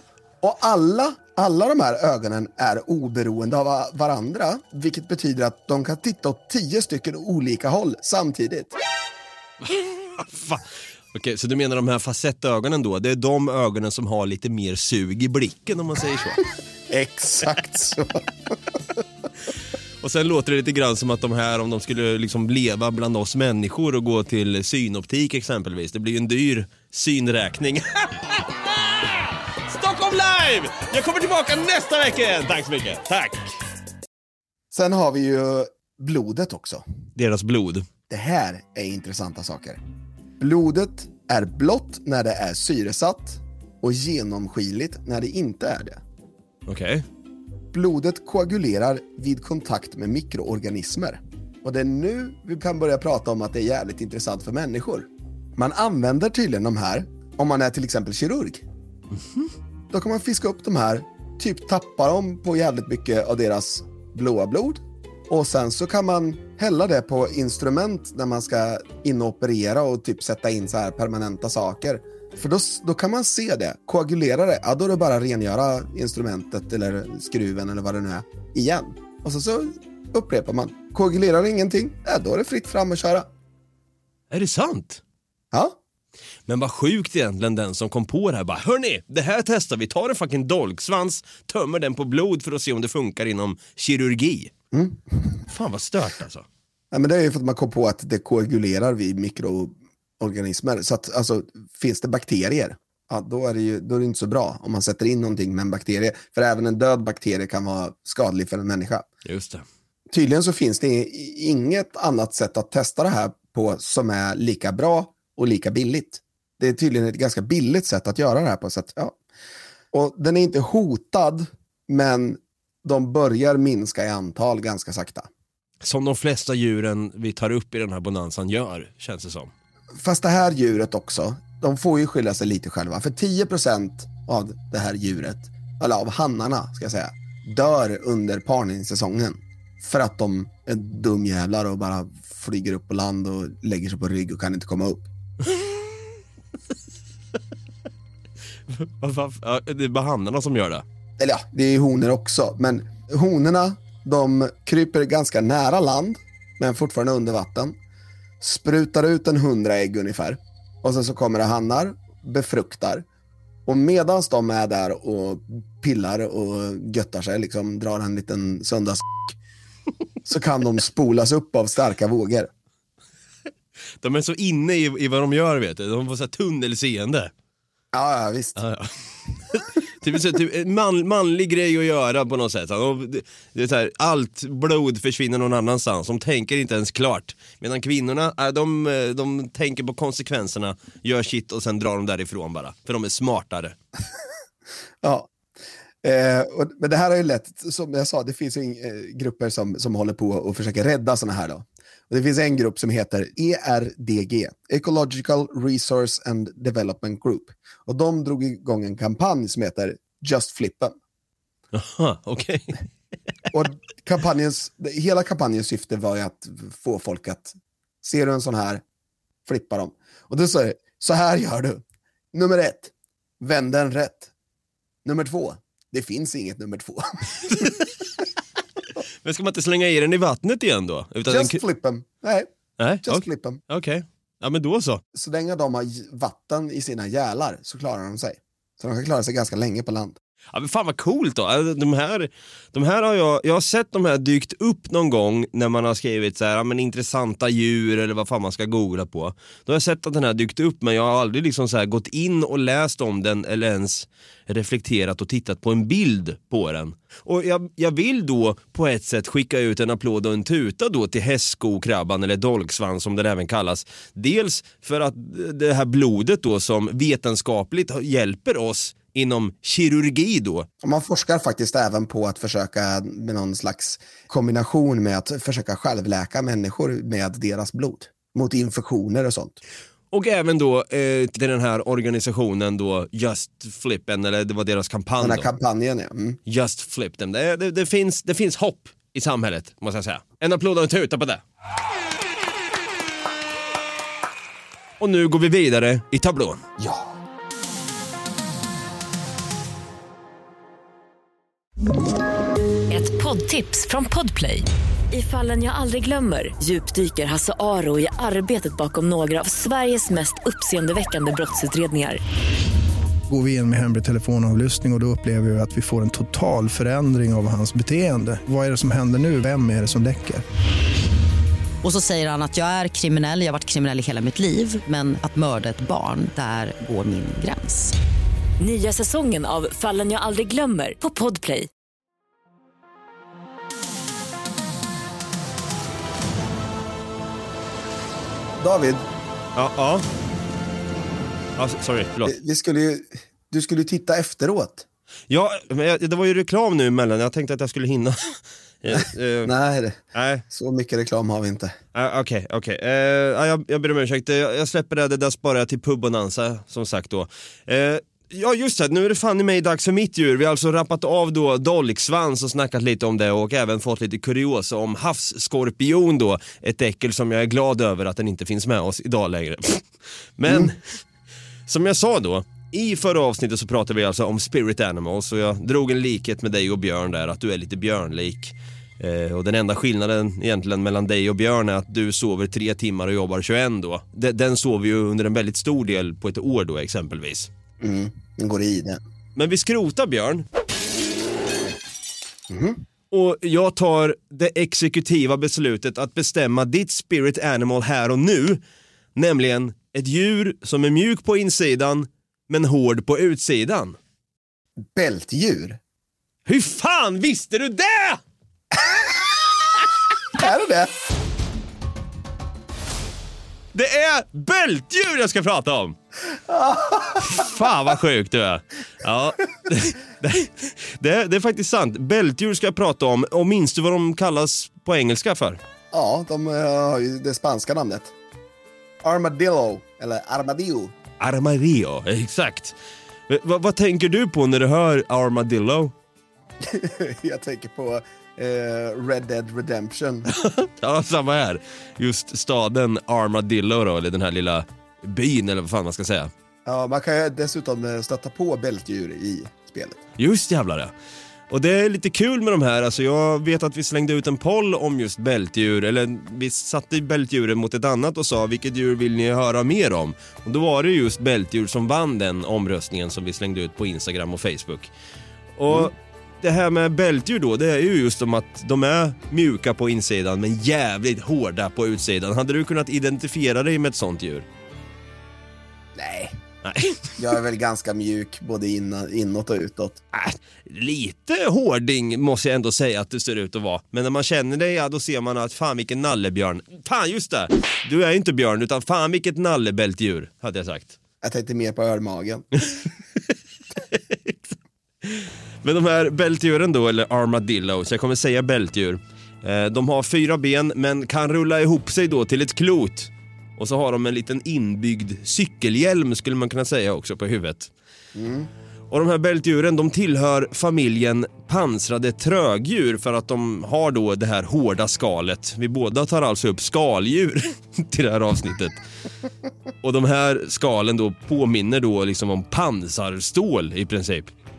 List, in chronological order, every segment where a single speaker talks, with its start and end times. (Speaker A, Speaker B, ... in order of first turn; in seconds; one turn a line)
Speaker A: 0.4-8.7
Speaker B: 9.6-16.4
Speaker A: 16.9-18.6
Speaker B: 20.0-33.5
Speaker A: 34.7-36.8
Speaker B: 37.1-37.9
Speaker A: 38.1-39.8
Speaker A: 40.4-46.0
Speaker B: 46.6-47.0
Speaker A: 47.7-58.6
Speaker B: 59.2-59.5
Speaker A: 59.9-83.3
Speaker B: 84.3-85.0
Speaker A: 85.5-85.8
Speaker B: 86.5-94.5
Speaker A: 94.7-95.4
Speaker B: 95.5-96.5
Speaker A: 96.9-109.1
Speaker B: 109.2-109.7
Speaker A: 110.1-119.2
Speaker A: 119.9-125.3
Speaker B: 125.8-129.5
Speaker A: 130.0-145.1
Speaker B: 148.7-150.8
Speaker A: 151.2-157.8
Speaker A: 158.4-163.0
Speaker A: 163.7-169.3
Speaker A: 170.2-172.5
Speaker B: 174.0-177.3
Speaker A: 177.9-178.6
Speaker B: 178.6-178.9
Speaker B: 179.5-193.8
Speaker A: 195.0-195.3
Speaker A: 196.0-210.9
Speaker B: 211.7-212.8
Speaker A: 213.5-218.8
Speaker A: 219.5-224.3
Speaker A: 225.0-227.8
Speaker B: 229.2-231.6
Speaker A: 231.3-232.5
Speaker B: 232.8-235.0
Speaker A: 233.0-233.6
Speaker A: 235.1-240.2
Speaker B: 240.5-270.7
Speaker A: 270.8-279.6
Speaker B: 280.1-285.5
Speaker A: 285.2-286.4
Speaker B: 286.5-291.4
Speaker B: 295.0-296.6
Speaker A: 296.8-297.1
Speaker C: 302.9-312.2
Speaker D: 313.3-320.4
Speaker E: 321.8-327.9
Speaker C: 328.6-331.7
Speaker A: 338.6-339.1
Speaker B: 339.6-340.0
Speaker B: 341.6-342.3
Speaker A: 342.2-344.9
Speaker B: 345.3-349.5
Speaker A: 348.9-351.8
Speaker B: 350.1-350.4
Speaker B: 351.9-370.8
Speaker A: 370.5-370.7
Speaker B: 371.7-387.5
Speaker A: 387.8-389.0
Speaker B: 389.4-390.4
Speaker A: 392.5-392.8
Speaker B: 393.1-398.6
Speaker B: 399.2-404.0
Speaker A: 404.8-405.8
Speaker B: 406.5-408.2
Speaker A: 408.7-409.3
Speaker A: 410.3-411.0
Speaker B: 413.7-416.0
Speaker A: 416.3-417.5
Speaker B: 417.2-425.6
Speaker A: 425.9-428.1
Speaker A: 429.0-430.9
Speaker B: 431.2-432.8
Speaker B: 433.3-435.9
Speaker A: 436.6-440.3
Speaker B: 440.3-446.3
Speaker A: 446.6-450.0
Speaker B: 450.2-450.9
Speaker B: 451.5-464.9
Speaker B: 465.6-474.5
Speaker A: 476.0-476.4
Speaker B: 476.6-477.1
Speaker A: 477.2-480.0
Speaker B: 480.1-491.0
Speaker A: 491.2-492.5
Speaker B: 492.6-492.9
Speaker B: 493.9-507.7
Speaker A: 508.1-508.5
Speaker B: 508.9-518.8
Speaker B: 519.8-524.3